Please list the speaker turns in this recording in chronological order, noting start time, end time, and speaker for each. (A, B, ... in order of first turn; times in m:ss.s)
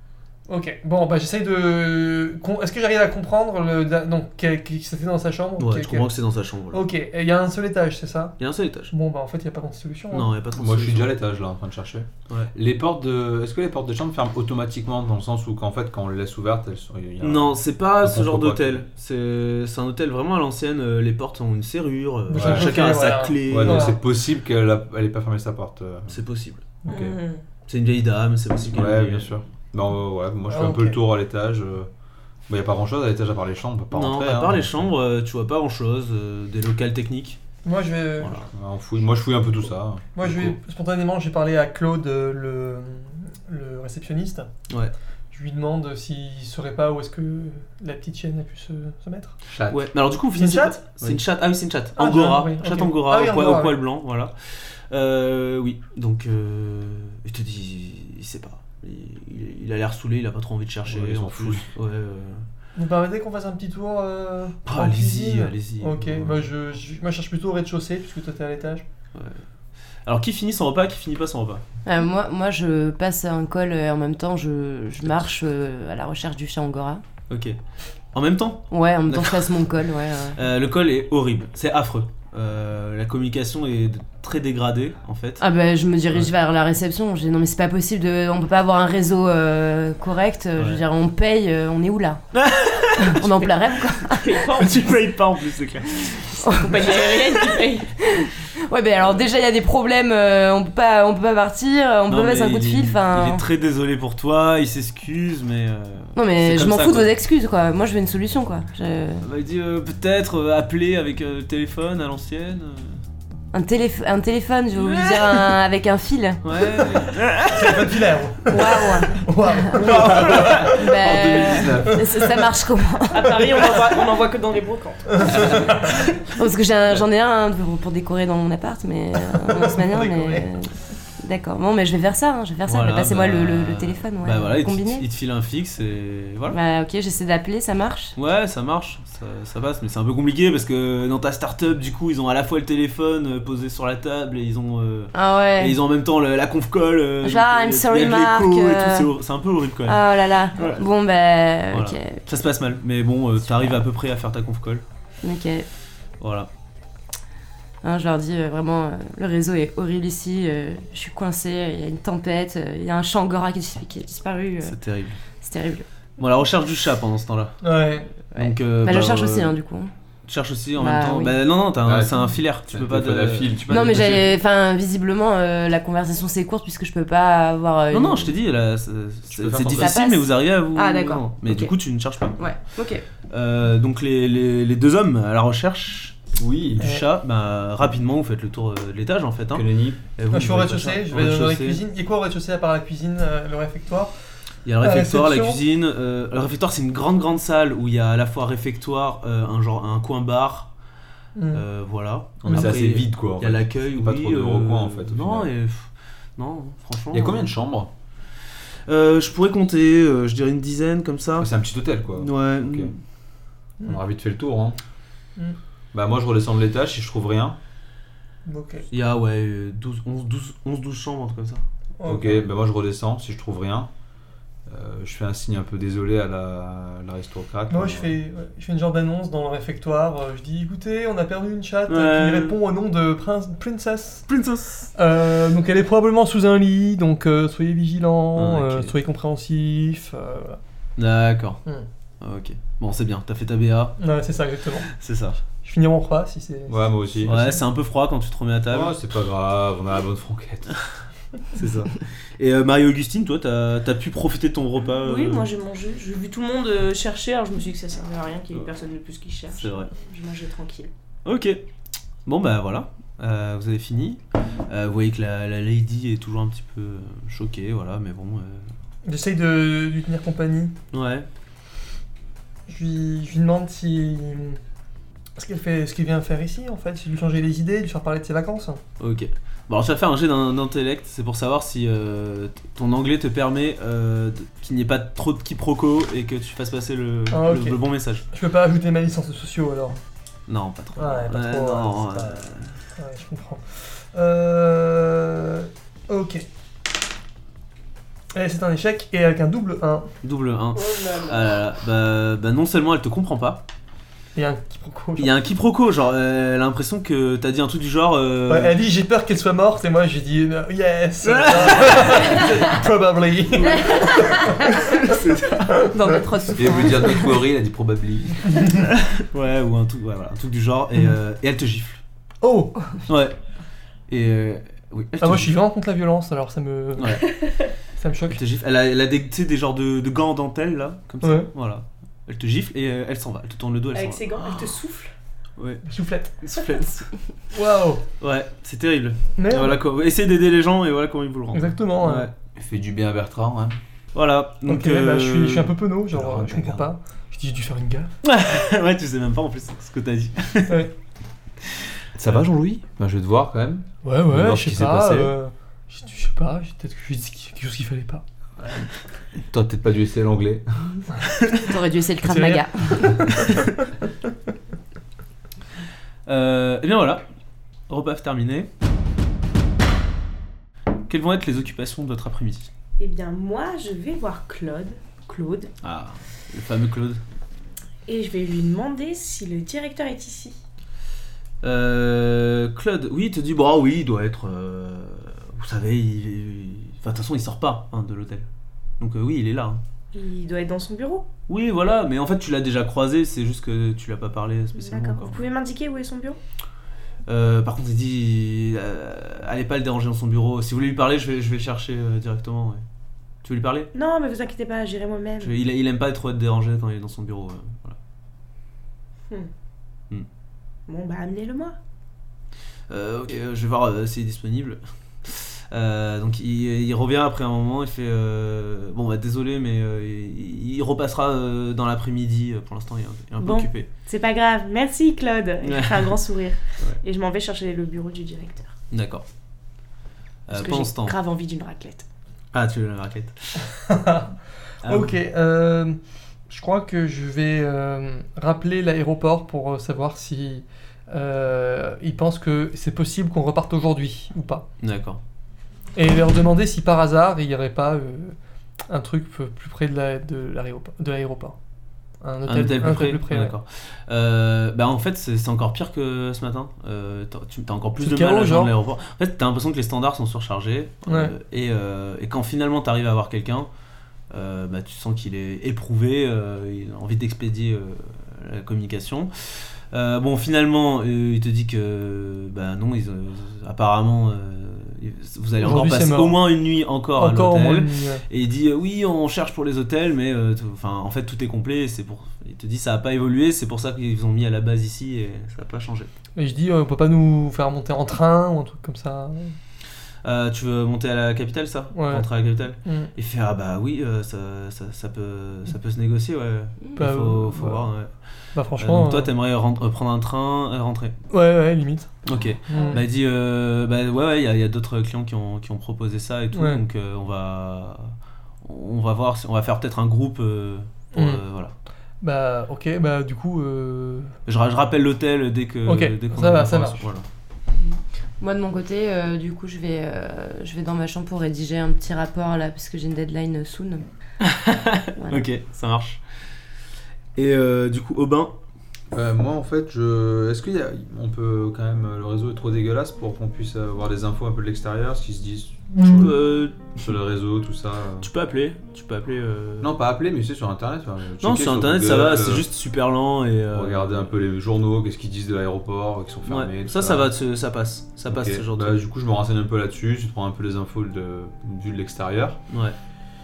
0:00.5-0:06.1 A
0:05.6-0:06.8 B
0:06.7-0:08.4 A
0:08.4-0:08.9 B
0:08.9-0:10.3 A
0:10.1-0:11.2 B
0:10.5-0:18.8 C
0:17.2-0:23.9 B
0:22.3-0:24.0 A
0:22.3-0:26.2 C
0:26.1-0:26.8 B
0:26.8-0:27.1 A
0:26.9-0:27.1 C
0:26.9-0:27.4 D
0:27.7-0:29.4 B
0:28.6-0:31.9 C
0:30.5-0:31.0 A
0:32.5-0:34.9 C
0:33.9-0:37.4 B
0:37.6-0:38.5 A
0:38.5-0:40.6 C
0:40.1-0:44.5 A
0:45.3-0:49.4 A
0:49.5-0:49.8 C
0:49.7-1:02.4 B
0:50.3-0:50.8 A
0:52.0-0:53.8 A
1:00.8-1:01.6 C
1:02.7-1:08.8 A
1:04.6-1:06.5 B
1:09.1-1:09.4 B
1:10.0-1:11.6 B
1:11.8-1:17.0 E
1:17.3-1:17.6 B
1:18.1-1:19.7 B
1:18.7-1:20.4 E
1:20.3-1:25.4 B
1:25.4-1:32.2 E
1:32.3-1:33.9 B
1:33.0-1:34.5 E
1:34.1-1:35.1 D
1:34.5-1:37.2 B
1:36.4-1:37.0 E
1:36.5-1:37.9 D
1:38.0-1:43.4 E
1:42.1-1:47.1 B
1:46.1-1:49.2 E
1:49.2-1:53.0 B
1:53.5-1:56.4 E
1:54.8-1:55.4 B
1:56.4-1:58.1 B
1:57.5-2:01.0 A
1:58.5-2:03.4 E
1:59.8-2:00.5 B
2:00.1-2:02.1 C
2:01.7-2:02.2 A
2:03.1-2:05.8 D
2:05.2-2:06.0 A
2:06.3-2:15.0 E
2:09.4-2:10.4 A
2:12.6-2:16.6 B
2:16.5-2:18.1 E
2:18.2-2:30.8 B
2:25.1-2:25.8 E
2:27.2-2:29.1 E
2:29.9-2:32.2 E
2:31.7-2:34.8 B
2:35.2-2:35.7 E
2:36.2-2:36.5 B
2:37.8-2:44.8 E
2:44.6-2:45.2 B
2:45.4-2:45.8 E
2:46.2-2:47.7 B
2:47.6-2:48.1 A
2:48.3-2:49.6 B
2:48.3-2:49.9 E
2:50.2-2:54.2 B
2:50.8-2:51.3 E
2:51.8-2:54.3 C
2:53.7-2:58.3 E
2:57.9-3:02.5 B
2:59.3-2:59.9 C
2:59.7-3:01.7 E
3:02.4-3:03.0 E
3:03.3-3:06.2 B
3:06.4-3:06.9 C
3:06.8-3:11.8 B
3:09.5-3:10.0 C
3:10.3-3:14.1 A
3:14.6-3:20.7 B
3:14.8-3:15.6 A
3:21.3-3:21.6 A
3:21.5-3:27.5 B
3:22.4-3:22.7 A
3:22.4-3:25.5 C
3:27.1-3:27.9 C
3:28.9-3:31.5 B
3:31.4-3:32.9 C
3:32.2-3:33.0 B
3:33.8-3:34.8 C
3:35.9-3:37.6 C
3:38.4-3:38.8 A
3:38.9-3:41.6 B
3:42.0-3:42.4 A
3:42.0-3:43.9 C
3:44.6-3:48.2 C
3:47.7-3:54.2 A
3:51.9-3:52.6 B
3:54.3-3:54.9 B
3:54.9-4:00.6 A
3:58.3-3:58.9 B
4:01.0-4:01.6 B
4:02.2-4:04.0 B
4:04.0-4:04.9 A
4:04.9-4:05.4 B
4:05.6-4:07.6 A
4:06.7-4:07.5 C
4:07.2-4:09.0 B
4:08.7-4:10.7 C
4:11.5-4:15.5 B
4:15.0-4:20.9 D
4:19.6-4:19.9 B
4:21.2-4:21.6 B
4:22.2-4:28.7 B
4:29.0-4:30.7 A
4:30.9-4:31.2 B
4:32.7-4:34.6 A
4:35.4-4:38.8 A
4:39.0-4:48.2 B
4:47.3-4:47.8 A
4:48.3-4:50.0 A
4:50.5-4:52.7 B
4:51.0-4:52.4 A
4:53.0-4:56.4 A
4:58.3-5:00.1 A
5:00.2-5:03.6 B
5:04.3-5:05.3 A
5:05.2-5:08.8 B
5:08.5-5:15.9 A
5:11.2-5:12.7 B
5:13.5-5:15.8 B
5:14.2-5:14.6 E
5:15.9-5:17.3 E
5:16.5-5:18.4 C
5:18.9-5:22.0 B
5:22.4-5:23.0 A
5:23.1-5:23.4 B
5:24.1-5:25.6 B
5:25.2-5:27.4 A
5:27.0-5:27.2 B
5:27.3-5:27.7 D
5:28.0-5:28.4 A
5:28.3-5:34.4 B
5:31.2-5:31.5 A
5:33.9-5:35.1 D
5:35.6-5:35.8 B
5:35.8-5:36.4 A
5:36.4-5:37.1 B
5:37.5-5:38.0 A
5:38.2-5:42.3 B
5:39.4-5:39.8 A
5:41.5-5:42.3 A
5:42.5-5:43.8 C
5:44.1-5:45.8 B
5:44.6-5:48.1 A
5:46.1-5:46.9 C
5:48.2-5:50.9 B
5:52.1-5:55.3 C
5:54.0-5:58.2 A
5:59.5-6:01.0 C
6:01.5-6:03.2 E
6:02.2-6:03.7 A
6:06.2-6:07.2 B
6:07.9-6:08.7 B
6:11.1-6:12.7 B
6:13.0-6:15.7 D
6:15.8-6:17.2 B
6:18.1-6:20.6 D
6:21.6-6:28.5 B
6:29.0-6:29.8 B
6:30.1-6:31.3 D
6:31.5-6:35.4 B
6:34.8-6:36.4 D
6:37.3-6:42.8 B
6:43.4-6:43.9 B
6:43.9-6:45.6 D
6:45.4-6:48.0 B
6:50.9-6:51.8 D
6:52.9-7:03.9 B
7:03.4-7:08.7 D
7:05.6-7:06.1 B
7:08.9-7:09.2 B
7:10.5-7:11.1 B
7:10.5-7:12.0 D
7:12.5-7:13.6 B
7:13.8-7:16.0 A
7:14.8-7:15.1 B
7:16.5-7:24.6 A
7:24.8-7:25.2 B
7:25.9-7:28.4 A
7:28.9-7:31.6 A
7:32.2-7:33.5 A
7:32.5-7:43.7 B
7:38.0-7:38.7 A
7:41.1-7:41.3 A
7:44.3-8:06.1 B
7:55.6-7:56.5 A
7:57.2-7:58.2 A
8:06.4-8:09.5 A
8:10.2-8:18.1 B
8:11.9-8:12.3 A
8:12.8-8:13.1 A
8:17.0-8:17.8 A
8:18.5-8:19.3 A
8:18.8-8:21.2 B
8:21.3-8:22.1 A
8:22.2-8:31.7 B
8:22.7-8:23.0 A
8:26.5-8:26.8 A
8:31.1-8:31.4 A
8:32.2-8:34.3 A
8:34.4-8:37.2 B
8:35.8-8:37.0 A
8:38.4-8:44.0 E
8:44.4-8:46.2 B
8:45.2-8:45.4 E
8:47.4-8:48.5 B
8:49.1-8:56.4 C
8:56.1-8:57.1 B
8:57.0-8:58.3 C
8:58.2-8:59.9 B
8:59.8-9:02.7 C
9:01.4-9:04.3 B
9:03.7-9:07.3 C
9:06.4-9:09.0 B
9:08.3-9:12.6 C